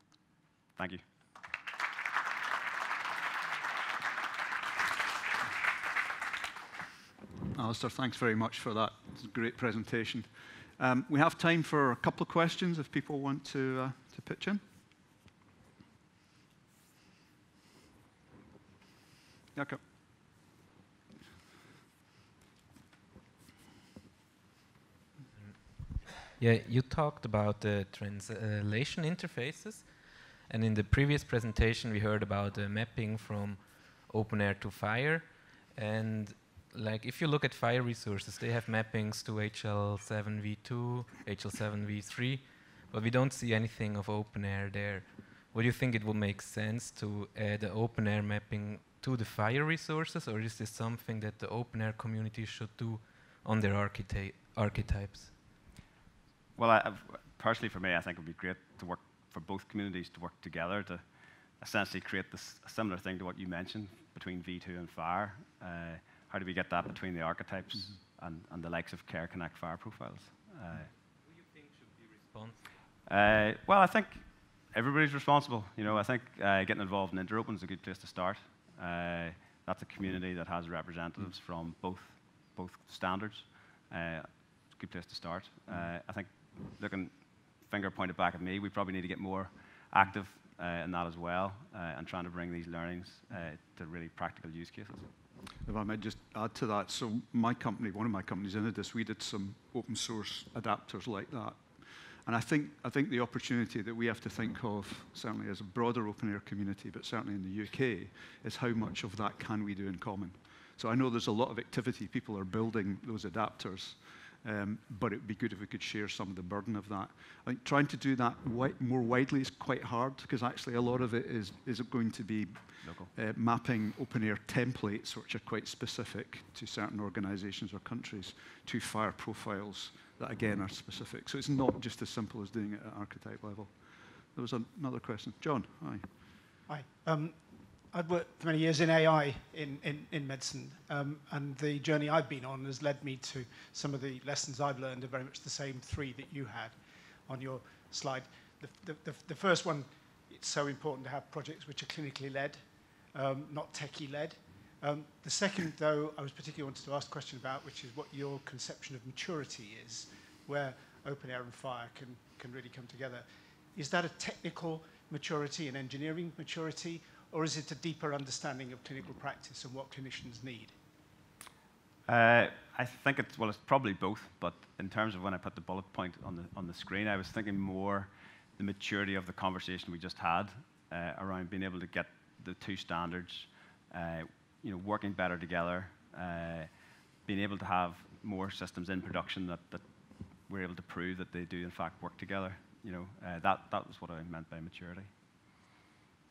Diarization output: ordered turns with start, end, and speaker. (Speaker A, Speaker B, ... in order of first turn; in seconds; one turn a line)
Speaker A: 0.8-1.0
Speaker B: 7.5-14.6
Speaker B: 19.5-19.8
Speaker C: 26.3-55.4
Speaker A: 56.6-61.0
Speaker A: 61.6-70.9
Speaker C: 71.3-72.6
Speaker A: 73.0-87.1
Speaker A: 87.6-95.1
Speaker B: 95.6-136.2
Speaker A: 122.8-123.1
Speaker D: 136.7-170.7
Speaker A: 172.1-186.7
Speaker A: 187.2-189.8
Speaker A: 190.5-195.1